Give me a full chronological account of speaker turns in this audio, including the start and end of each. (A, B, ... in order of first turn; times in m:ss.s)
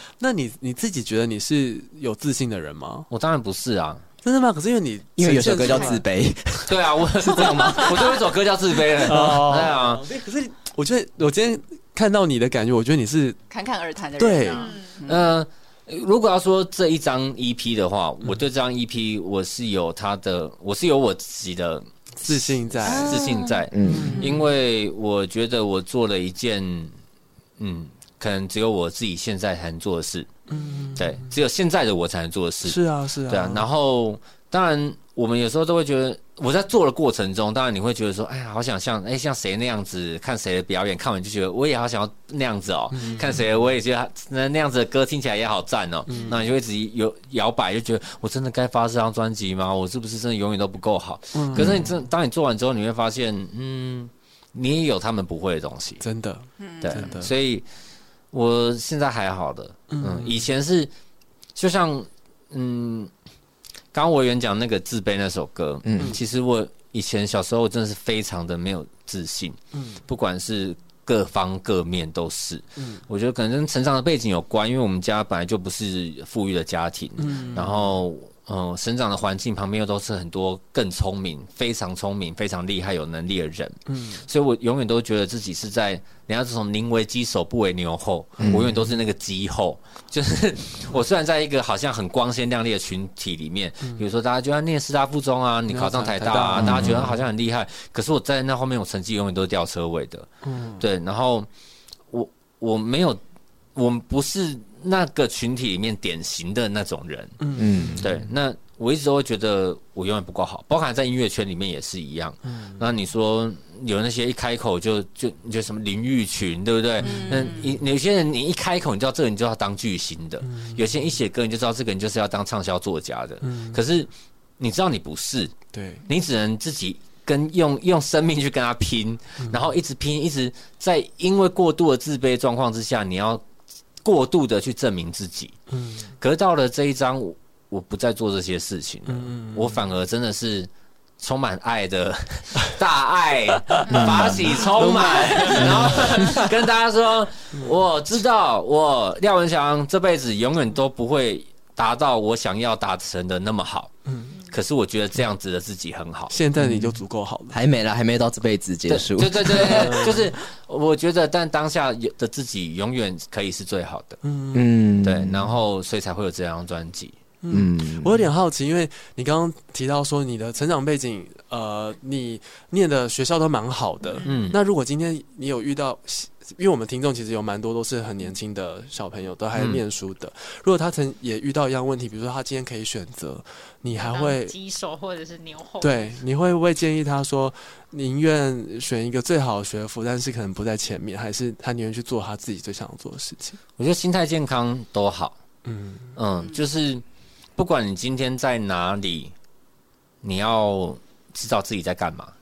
0:00.2-0:03.1 A
0:03.1-0:04.0 B
0:04.2-0:06.0 A
0:05.2-0:06.7 C
0:06.7-0:10.0 B
0:07.2-0:07.8 C
0:09.0-0:13.4 A
0:13.5-0:15.3 D
0:14.2-0:14.7 A
0:14.5-0:14.9 E
0:15.1-0:26.9 B
0:22.2-0:23.2 A
0:22.8-0:24.3 D
0:23.7-0:24.2 C
0:23.8-0:24.5 A
0:27.6-0:30.3 B
0:30.5-0:31.2 A
0:31.0-0:56.0 B
0:32.6-0:33.6 A
0:42.9-0:43.4 A
0:46.1-0:46.4 A
0:51.3-0:51.9 A
0:51.6-0:51.8 C
0:56.0-0:57.3 A
0:56.6-0:57.1 D
0:56.8-0:57.6 B
0:58.3-1:00.9 B
0:59.9-1:00.4 A
1:01.6-1:03.1 B
1:03.9-1:40.3 B
1:05.8-1:06.2 C
1:09.7-1:10.0 A
1:12.8-1:13.0 A
1:17.2-1:17.9 A
1:23.9-1:24.2 A
1:28.4-1:28.7 C
1:35.7-1:37.2 A
1:36.6-1:37.1 C
1:40.4-1:40.8 A
1:40.8-1:41.5 B
1:42.1-1:43.2 B
1:43.7-1:47.4 B
1:47.4-1:48.1 A
1:47.6-1:48.1 C
1:48.0-2:05.5 B
1:52.5-1:52.8 A
1:57.0-1:57.7 D
1:57.0-1:57.6 A
2:00.4-2:00.8 A
2:03.4-2:03.8 A
2:05.7-2:06.0 A
2:06.1-2:13.4 B
2:14.0-2:15.6 B
2:15.7-2:16.1 A
2:16.2-2:33.9 B
2:19.1-2:19.8 A
2:23.9-2:25.9 A
2:23.9-2:24.6 C
2:25.6-2:26.0 C
2:34.1-2:34.3 A
2:34.4-2:36.3 B
2:36.3-2:37.6 A
2:36.6-2:37.0 C
2:37.5-2:40.2 C
2:38.9-2:44.2 B
2:39.7-2:40.2 A
2:44.2-2:44.7 A
2:44.5-2:45.5 C
2:45.0-2:47.1 B
2:47.4-3:04.5 A
2:47.5-2:48.2 C
2:54.2-2:54.5 E
2:54.2-2:54.6 B
2:59.5-2:59.8 B
3:04.0-3:06.1 E
3:05.8-3:13.6 A
3:13.8-3:15.4 B
3:15.6-3:16.1 A
3:16.2-3:17.0 B
3:17.6-3:19.3 B
3:20.2-3:22.3 B